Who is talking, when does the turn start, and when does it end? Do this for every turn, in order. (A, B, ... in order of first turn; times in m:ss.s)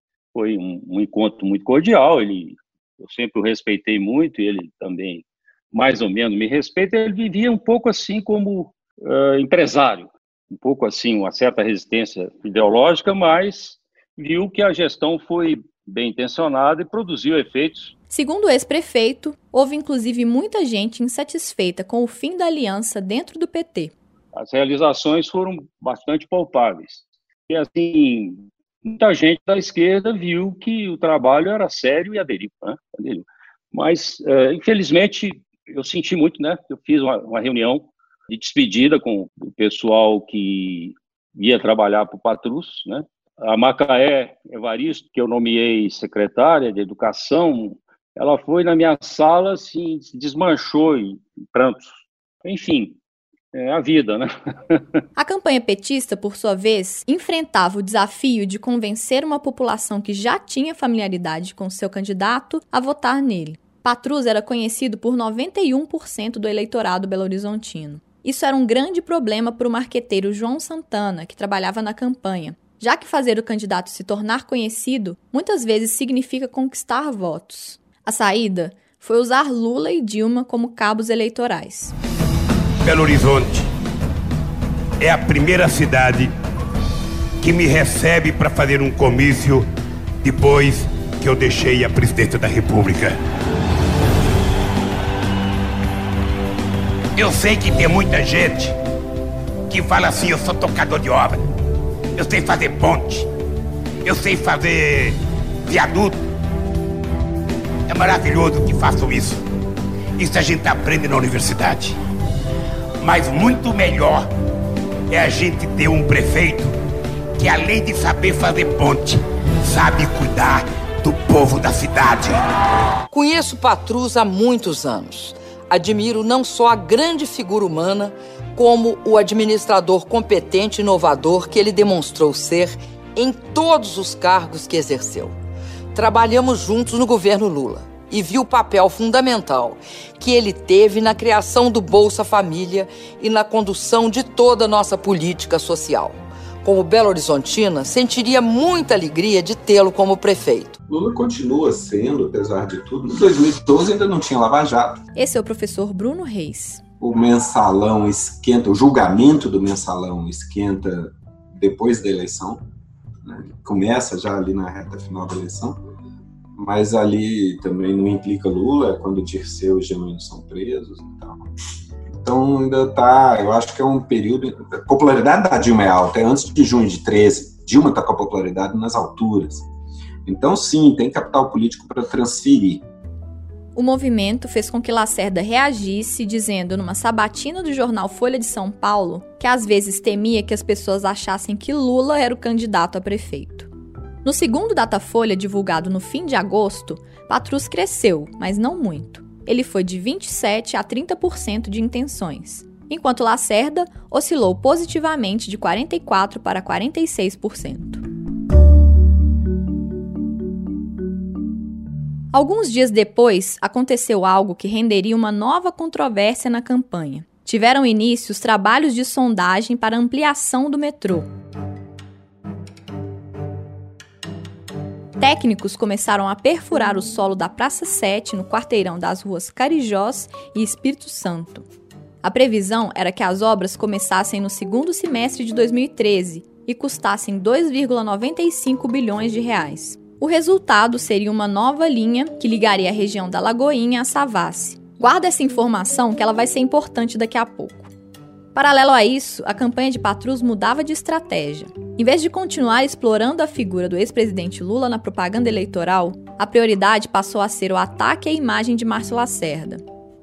0:00.3-0:17.9 A
0:18.1-0:23.9 B
0:24.3-0:53.0 A
0:53.5-0:54.8 A
0:55.2-1:21.9 B
1:22.8-1:23.7 C
1:25.0-1:26.3 C
1:27.4-1:29.6 C
1:30.2-1:33.2 C
1:37.2-1:38.8 C
1:39.7-1:41.4 C
1:42.2-1:43.3 C
1:44.0-1:46.2 C
1:47.9-1:49.4 C
1:50.2-1:52.0 C
1:53.0-1:54.3 C
1:55.1-1:56.7 C
1:57.4-2:02.4 C
2:03.1-2:15.4 D
2:15.9-2:30.8 D
2:30.9-2:35.0 E
2:35.2-2:36.8 B
2:37.0-2:42.6 E
2:43.2-2:45.8 E
2:46.6-2:51.5 E
2:52.2-2:59.7 E
3:00.2-3:02.8 E
3:03.8-3:13.7 B
3:14.2-3:28.0 B
3:32.3-3:41.3 B
3:45.2-3:51.7 B
3:52.2-4:07.9 B
4:08.6-4:19.8 B